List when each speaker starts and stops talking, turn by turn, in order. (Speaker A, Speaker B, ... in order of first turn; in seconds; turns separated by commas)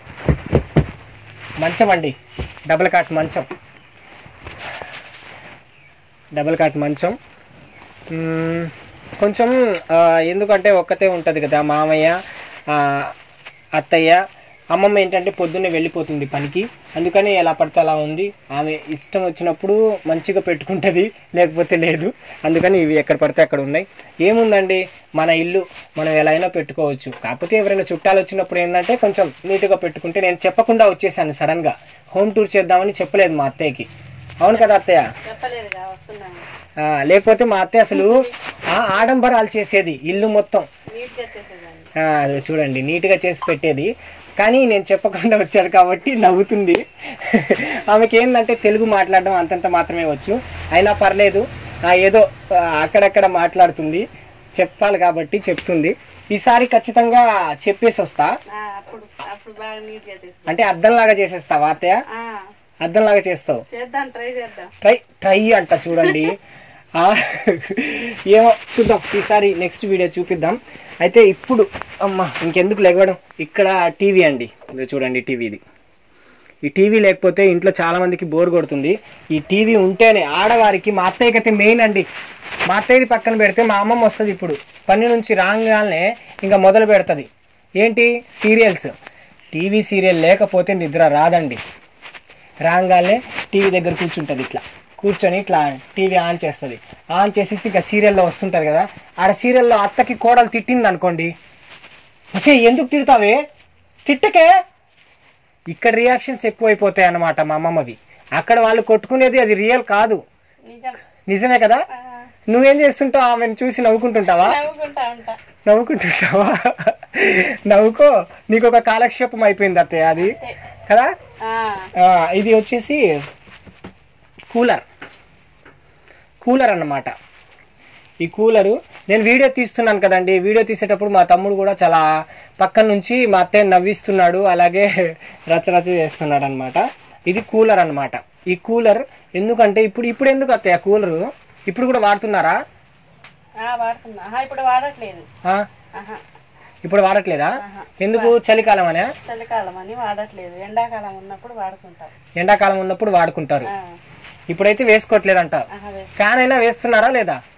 Speaker A: 1.6-2.1, Speaker A: 2.7-3.5, Speaker A: 6.3-7.1, Speaker A: 8.1-12.2, Speaker A: 12.7-13.1, Speaker A: 13.8-33.9, Speaker A: 34.4-35.0, Speaker B: 35.2-36.5, Speaker A: 36.8-40.6, Speaker B: 37.9-38.3, Speaker B: 40.9-41.9, Speaker A: 42.0-58.3, Speaker B: 58.5-60.6, Speaker A: 60.5-62.0, Speaker B: 62.1-62.5, Speaker A: 62.8-63.6, Speaker B: 63.7-64.7, Speaker A: 64.8-66.4, Speaker B: 66.0-66.2, Speaker A: 67.0-75.6, Speaker A: 76.6-82.1, Speaker A: 82.7-87.3, Speaker A: 87.8-88.9, Speaker A: 89.5-91.6, Speaker A: 92.7-101.3, Speaker A: 102.3-103.4, Speaker A: 104.0-104.5, Speaker A: 105.7-110.2, Speaker B: 110.7-111.0, Speaker A: 111.3-111.8, Speaker B: 111.9-112.3, Speaker A: 112.5-114.6, Speaker B: 114.3-115.4, Speaker A: 115.7-120.4, Speaker B: 120.2-120.5, Speaker A: 120.9-121.1, Speaker B: 121.4-121.9, Speaker A: 122.0-123.0, Speaker A: 124.5-124.8, Speaker A: 126.4-127.1, Speaker A: 128.2-132.0, Speaker A: 132.6-134.9, Speaker A: 135.5-142.6, Speaker B: 143.6-145.2, Speaker B: 145.9-146.2, Speaker A: 146.8-149.1, Speaker B: 147.6-148.3, Speaker B: 149.2-152.1, Speaker A: 152.4-153.7, Speaker A: 154.5-157.4, Speaker B: 155.7-156.1